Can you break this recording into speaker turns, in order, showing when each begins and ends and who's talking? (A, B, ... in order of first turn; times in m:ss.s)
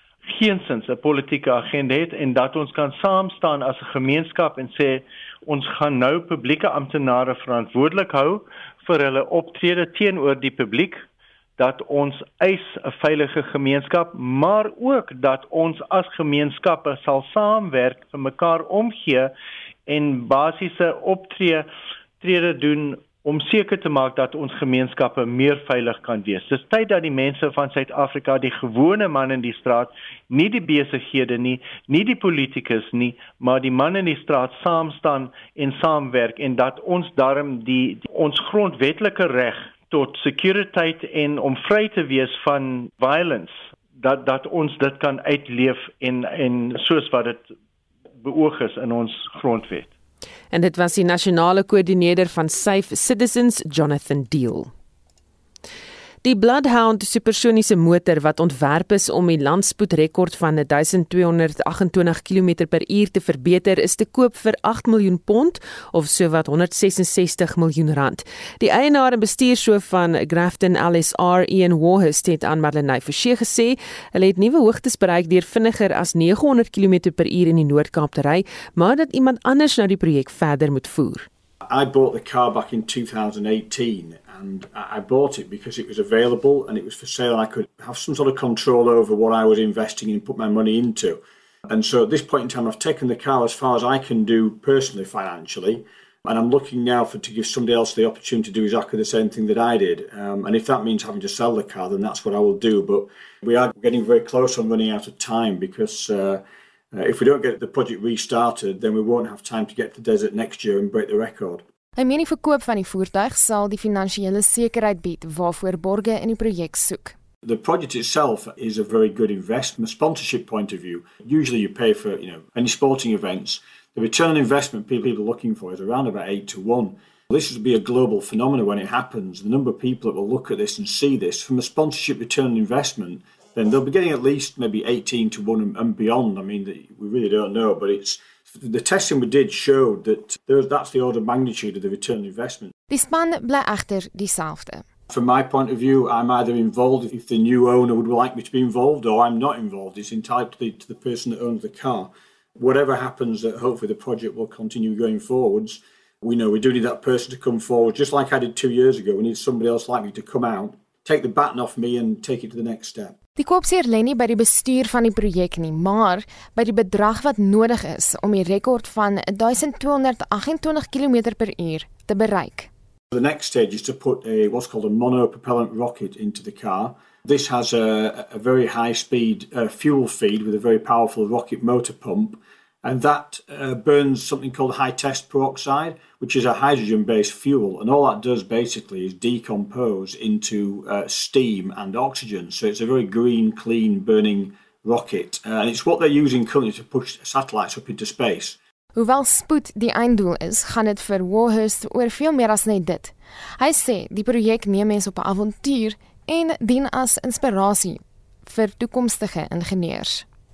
0:00.3-0:11.0 A
0:11.6-0:19.3 A
0:19.9-0:21.7 A
0:22.2-0:47.5 A
0:48.2-0:49.9 A
0:50.5-0:54.7 B
0:56.2-1:21.3 B
1:21.7-1:51.6 C
1:52.0-1:57.2 D
1:57.4-2:22.7 C
2:22.9-2:24.8 D
2:25.1-2:43.2 C
2:43.4-2:52.7 D
2:53.1-3:18.6 C
3:19.0-3:30.2 D